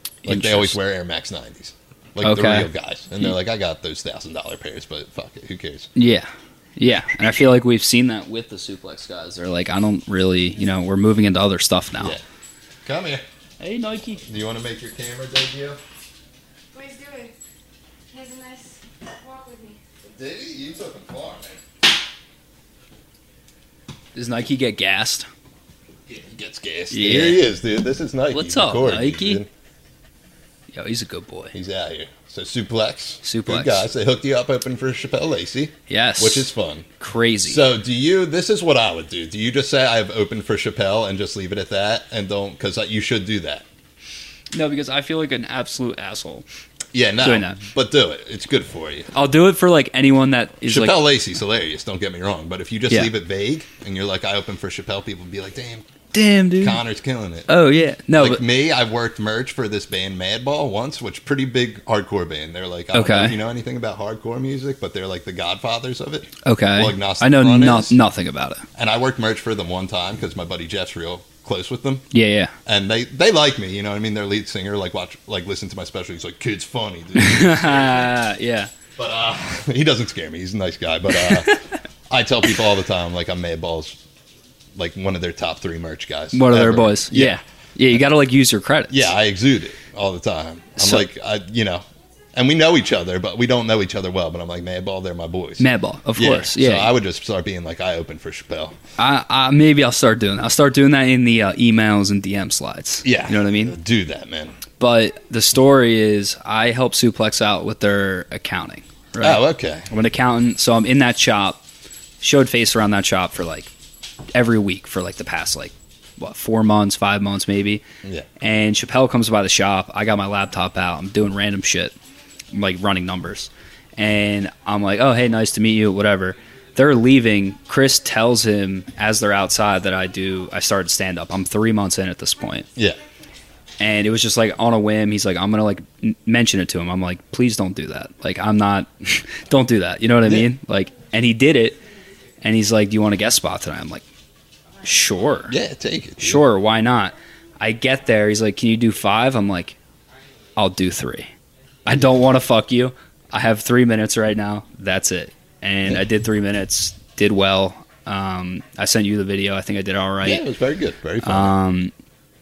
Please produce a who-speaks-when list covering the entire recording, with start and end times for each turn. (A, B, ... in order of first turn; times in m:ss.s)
0:00.2-0:00.8 A
0:00.2-0:05.9 B
0:02.2-0:02.7 A
0:05.9-0:12.2 A
0:12.8-0:13.2 B
0:13.6-0:14.2 A
0:14.2-0:15.8 B
0:16.7-0:17.3 C
0:18.1-0:19.8 C
0:20.0-0:21.6 B
0:24.1-0:25.3 A
0:26.1-0:29.5 B
0:26.9-0:27.4 A
0:28.3-0:29.4 A
0:30.7-0:31.5 A
0:31.5-0:36.9 B
0:33.2-0:33.8 A
0:35.9-0:37.6 A
0:37.4-0:43.6 B
0:44.5-0:46.4 A
0:46.9-0:49.1 B
0:47.2-0:47.6 A
0:49.1-0:51.0 A
0:50.6-0:55.9 B
0:56.1-0:56.8 A
0:56.6-0:57.5 B
0:57.5-0:58.4 A
0:58.2-1:08.0 B
1:02.9-1:03.4 A
1:06.4-1:08.6 A
1:08.7-1:12.0 B
1:12.1-1:12.5 A
1:12.6-1:18.1 B
1:17.2-1:18.7 A
1:19.0-1:24.0 B
1:21.1-1:21.6 A
1:24.8-1:27.4 B
1:26.3-1:29.1 A
1:28.9-1:38.8 B
1:30.8-1:31.1 A
1:35.6-1:36.9 A
1:39.0-1:43.7 A
1:43.0-1:44.6 B
1:44.8-1:51.6 A
1:49.2-1:49.9 B
1:52.2-1:53.7 A
1:54.3-1:57.8 A
1:58.0-1:58.3 B
1:58.4-2:01.9 A
2:02.5-2:12.7 A
2:12.8-2:13.0 B
2:13.8-2:21.8 A
2:20.2-2:20.5 B
2:22.4-2:24.0 A
2:24.8-2:25.6 A
2:25.5-2:26.4 B
2:26.2-2:29.8 A
2:30.6-2:31.3 A
2:31.8-2:40.4 A
2:40.2-2:41.6 B
2:41.2-2:41.9 A